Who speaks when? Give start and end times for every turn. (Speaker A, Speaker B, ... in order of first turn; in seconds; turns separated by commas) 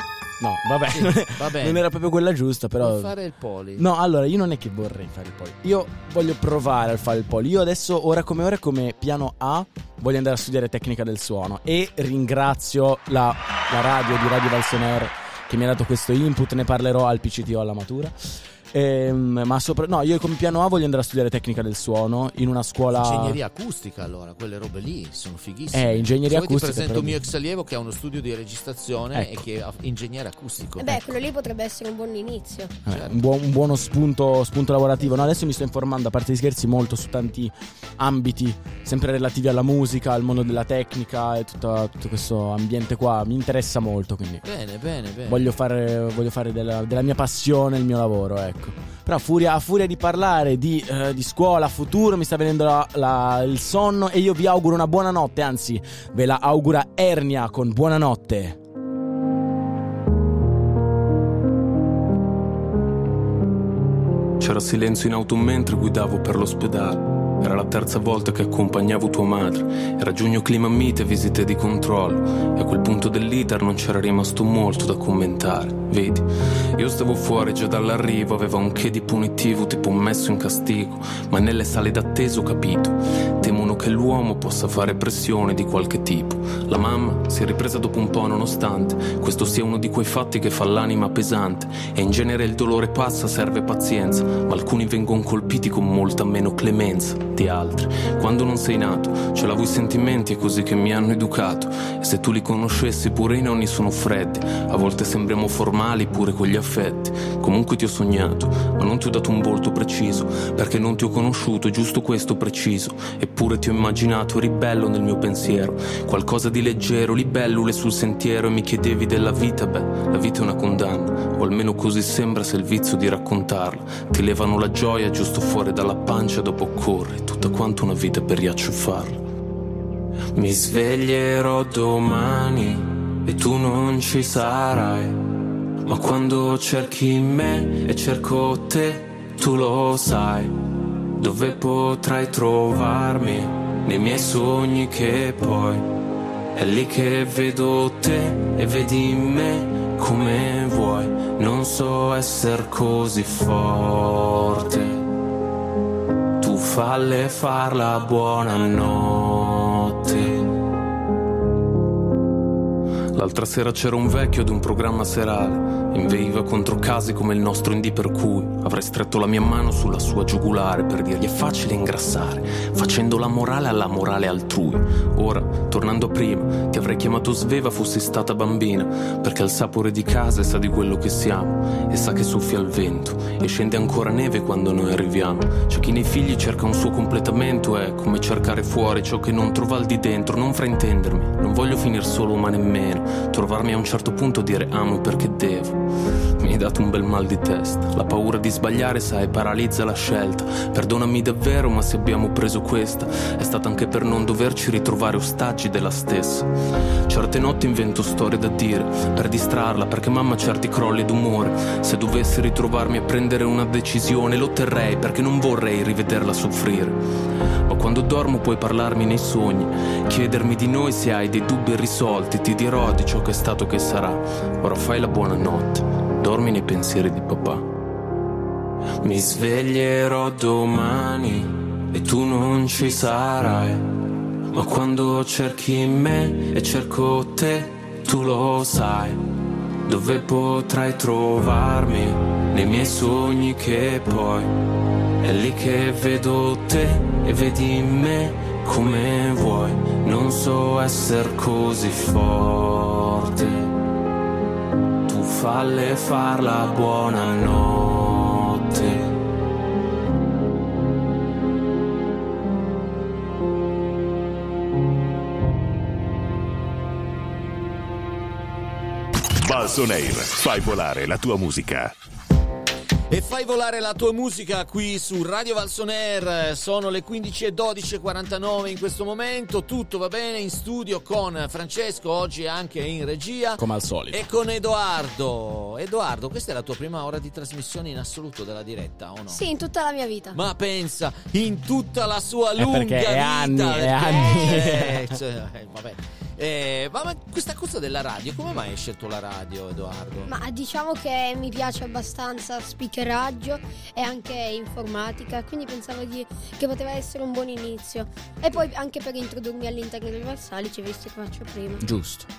Speaker A: 0.4-3.1, Speaker B: 0.9-1.9, Speaker B: 2.8-3.9, Speaker A: 3.8-18.1, Speaker A: 18.7-23.4, Speaker B: 22.9-31.0, Speaker A: 25.7-27.2, Speaker A: 29.1-29.4, Speaker C: 30.8-32.7, Speaker A: 32.9-44.5, Speaker B: 32.9-33.1, Speaker B: 44.5-45.5, Speaker A: 45.3-58.6, Speaker D: 64.4-129.2, Speaker D: 130.3-135.2, Speaker D: 135.8-140.5, Speaker D: 141.2-145.9, Speaker D: 146.6-155.0, Speaker D: 156.4-160.5, Speaker D: 163.1-195.8, Speaker D: 196.4-206.5, Speaker D: 207.1-217.0, Speaker D: 217.7-227.6, Speaker D: 229.0-233.8, Speaker D: 234.5-239.2, Speaker D: 239.9-244.5, Speaker D: 245.2-253.7, Speaker D: 255.1-259.1, Speaker E: 269.4-271.9, Speaker B: 273.1-289.4, Speaker A: 283.6-284.3, Speaker C: 289.3-290.4, Speaker B: 290.3-300.3, Speaker A: 292.6-295.1, Speaker C: 294.1-294.6, Speaker C: 300.3-311.8, Speaker A: 311.8-312.3